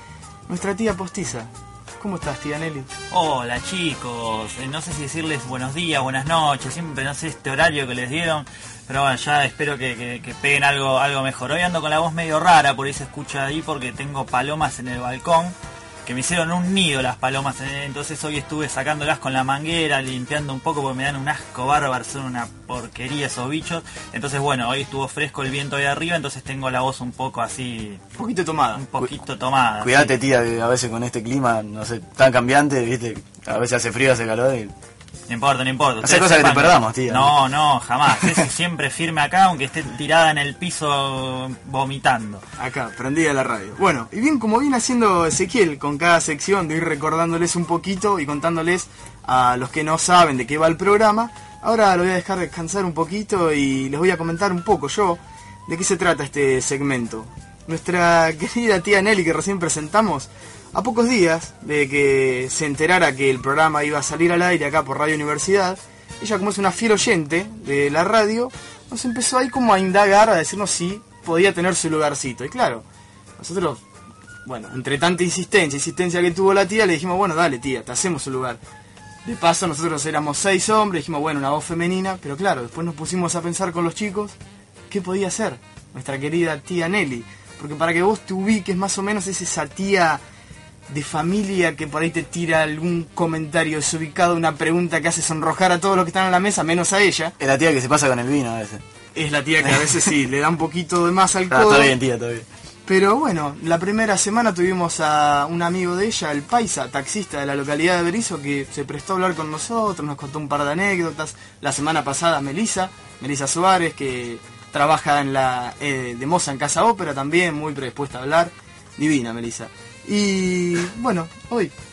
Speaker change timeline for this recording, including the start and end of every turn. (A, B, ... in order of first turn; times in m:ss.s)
0:00.5-0:02.9 A
0:03.1-0:28.0 B
0:28.1-0:29.1 A
0:28.7-0:30.2 B
0:29.8-0:34.7 C
0:35.3-0:42.4 B
0:36.0-0:37.4 C
0:42.6-1:12.8 A
1:13.4-1:13.8 A
1:14.4-1:18.6 A
1:19.2-1:24.4 A
1:24.9-1:30.2 A
1:30.9-1:37.4 A
1:37.4-1:38.8 C
1:39.1-1:41.9 A
1:41.5-1:42.4 C
1:42.9-2:01.7 A